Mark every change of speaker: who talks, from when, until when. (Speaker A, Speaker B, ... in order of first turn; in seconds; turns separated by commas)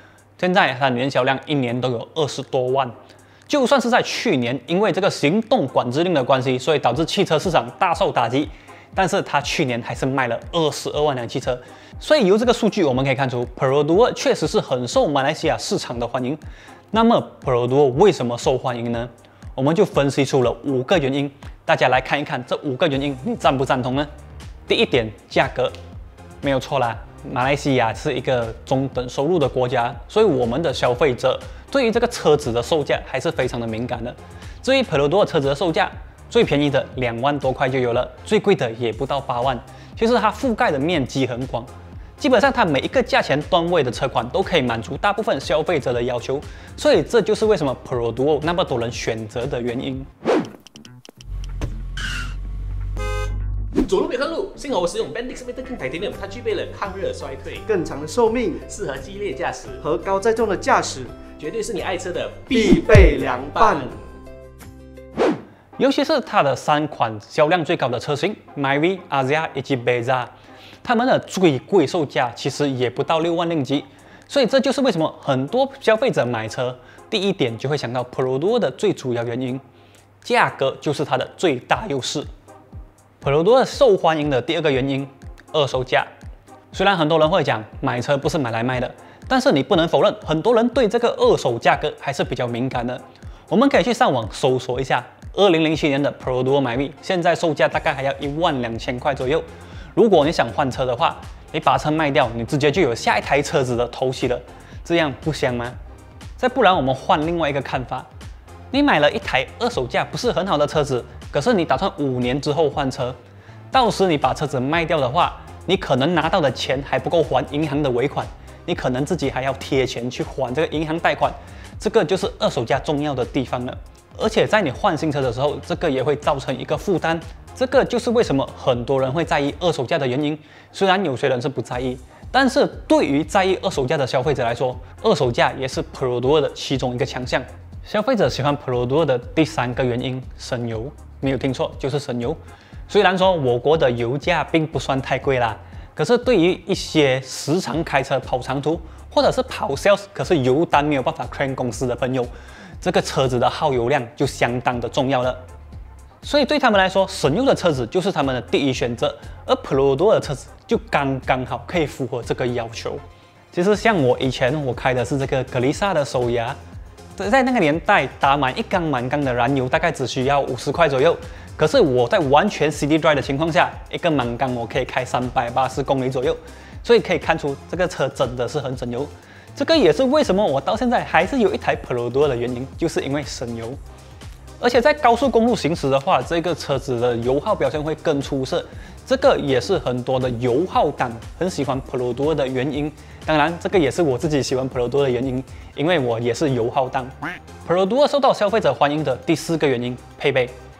Speaker A: 0.4-2.9, Speaker A: 3.5-16.4, Speaker A: 16.9-24.1, Speaker A: 24.7-25.7, Speaker A: 26.4-50.1, Speaker B: 53.8-57.6, Speaker C: 57.6-58.6, Speaker B: 58.6-59.8, Speaker C: 59.8-61.2, Speaker B: 61.4-64.0, Speaker C: 62.5-63.9, Speaker A: 65.8-70.3, Speaker A: 70.8-79.6, Speaker A: 80.2-82.3, Speaker A: 83.2-86.1, Speaker A: 86.7-105.8, Speaker A: 106.4-108.1, Speaker A: 108.7-113.2, Speaker A: 113.7-155.4, Speaker A: 156.2-163.0, Speaker A: 163.5-166.6, Speaker A: 167.2-183.8, Speaker A: 184.6-200.5